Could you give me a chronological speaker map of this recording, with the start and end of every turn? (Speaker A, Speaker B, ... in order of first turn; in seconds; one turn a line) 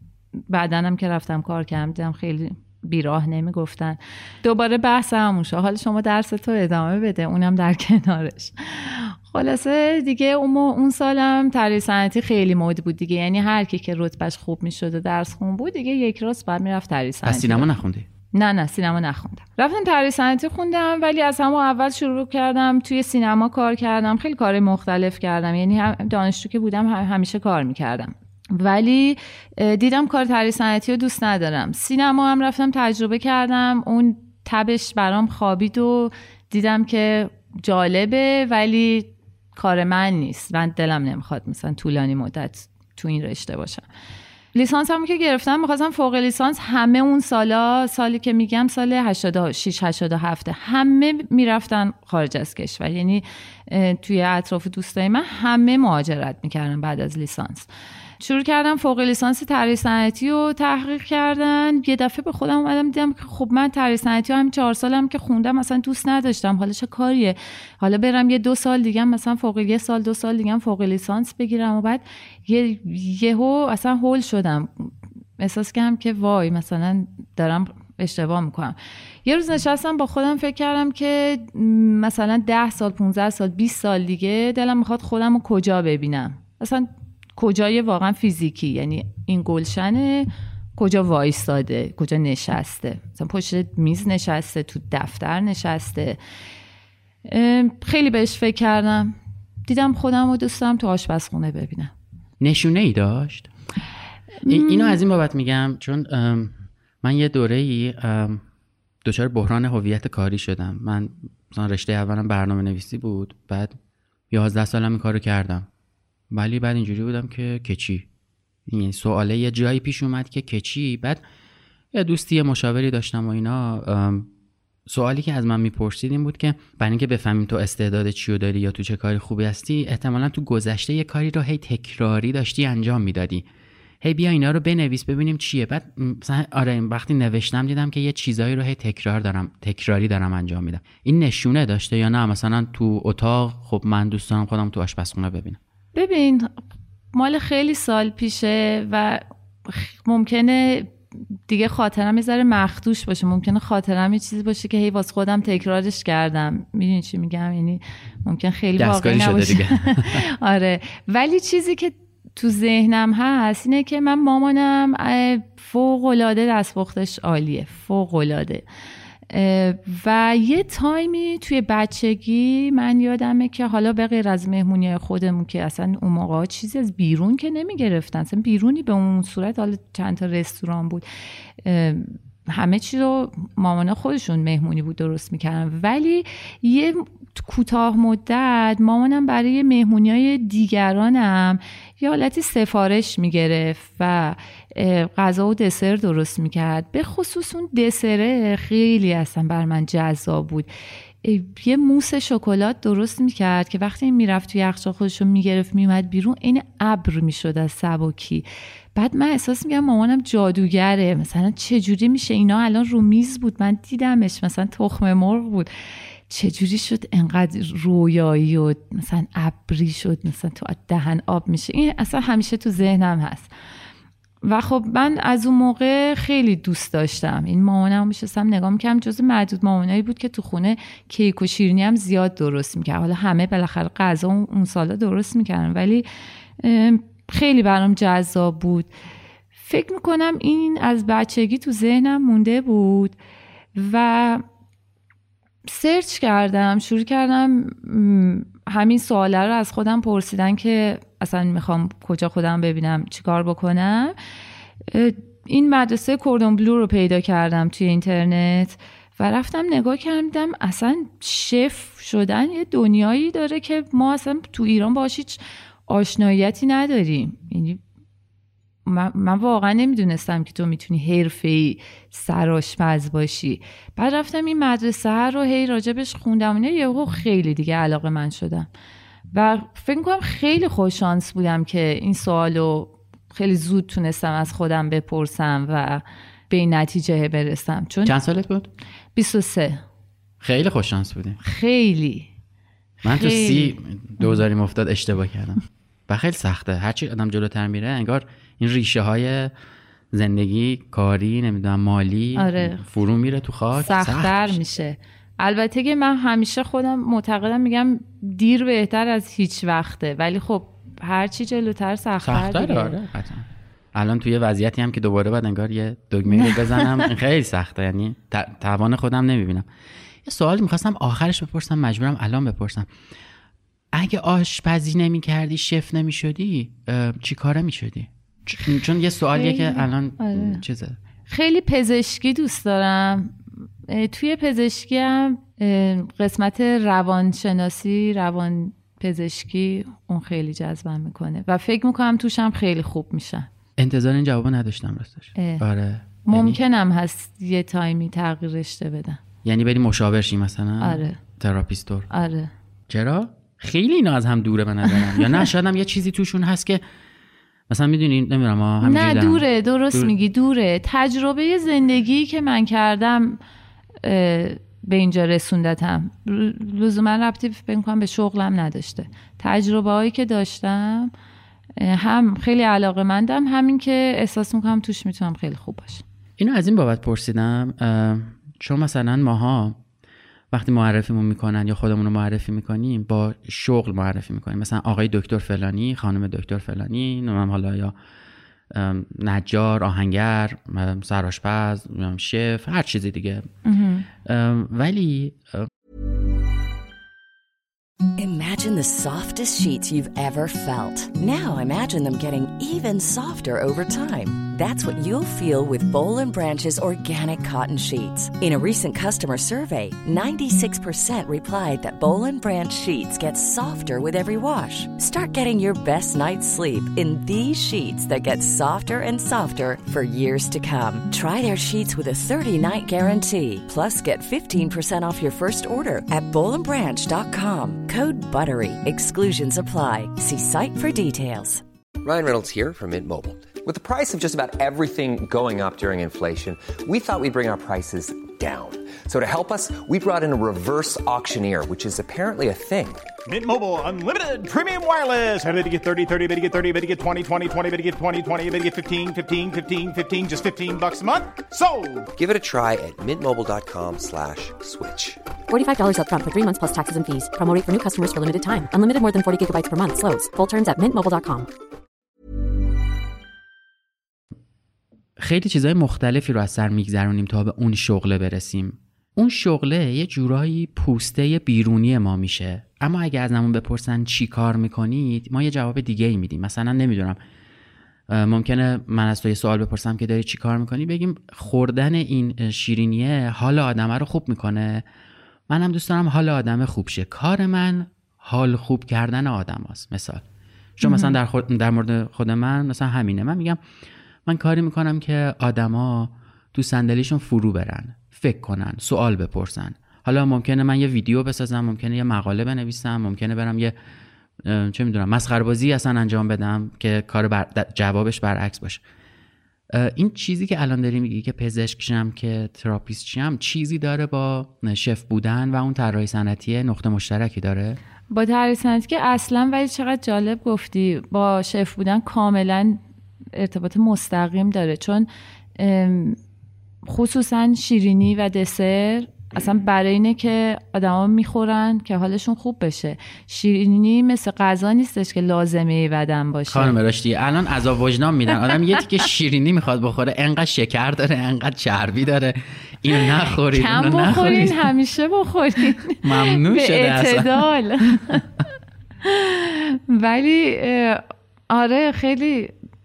Speaker A: 0.5-17.7
Speaker B: 17.2-18.1
Speaker A: 18.3-43.9
Speaker A: 44.5-57.7
Speaker A: 58.2-96.2
Speaker A: 97.2-99.2
Speaker A: 99.7-101.9
Speaker B: 102.4-103.5
Speaker A: 104.4-105.0
Speaker B: 104.5-108.4
Speaker B: 109.0-113.7
Speaker B: 114.3-115.7
Speaker B: 116.3-118.1
Speaker B: 118.7-121.2
Speaker B: 121.9-124.3
Speaker B: 124.9-133.5
Speaker B: 134.0-145.6
Speaker A: 145.9-146.5
Speaker A: 147.1-150.9
Speaker A: 151.5-168.7
Speaker B: 158.8-160.2
Speaker A: 169.3-181.1
Speaker A: 181.6-200.7
Speaker A: 201.2-215.7
Speaker A: 216.3-223.5
Speaker A: 224.4-236.1
Speaker A: 236.6-238.9
Speaker A: 239.6-243.2
Speaker A: 243.8-244.4
Speaker A: 245.7-254.2
Speaker A: 254.9-267.8
Speaker A: 268.9-278.7
Speaker A: 279.3-288.2
Speaker B: 288.1-288.7
Speaker A: 289.1-289.8
Speaker B: 290.4-291.4
Speaker A: 291.4-292.3
Speaker A: 293.0-294.4
Speaker B: 293.0-299.5
Speaker B: 300.1-304.6
Speaker A: 302.4-302.8
Speaker A: 303.7-313.0
Speaker B: 312.2-319.7
Speaker A: 316.3-317.1
Speaker B: 320.2-322.9
Speaker B: 323.9-331.0
Speaker A: 329.4-330.6
Speaker A: 331.3-333.4
Speaker A: 333.9-343.5
Speaker B: 343.8-346.6
Speaker A: 345.4-345.6
Speaker A: 346.2-349.2
Speaker B: 349.4-352.1
Speaker A: 350.8-351.2
Speaker A: 352.1-352.5
Speaker B: 352.9-356.8
Speaker A: 354.9-355.4
Speaker B: 357.7-360.1
Speaker A: 358.8-363.4
Speaker A: 364.0-371.1
Speaker A: 371.8-376.0
Speaker B: 376.4-379.8
Speaker B: 380.5-387.9
Speaker B: 388.7-393.5
Speaker A: 393.6-394.1
Speaker B: 394.2-395.7
Speaker C: 398.2-431.6
Speaker D: 432.0-443.1
Speaker E: 443.3-452.1
Speaker D: 452.2-455.2
Speaker F: 455.5-461.5
Speaker B: 465.2-477.2
Speaker B: 478.1-484.9
Speaker B: 485.5-490.2
Speaker B: 490.8-493.6
Speaker A: 490.8-491.2
Speaker B: 494.3-503.8
Speaker B: 504.4-508.8
Speaker B: 509.7-517.8
Speaker A: 518.1-522.8
Speaker A: 523.3-526.2
Speaker A: 526.9-536.8
Speaker B: 536.5-544.7
Speaker A: 538.5-538.8
Speaker A: 543.5-548.2
Speaker B: 546.0-548.2
Speaker A: 549.0-552.5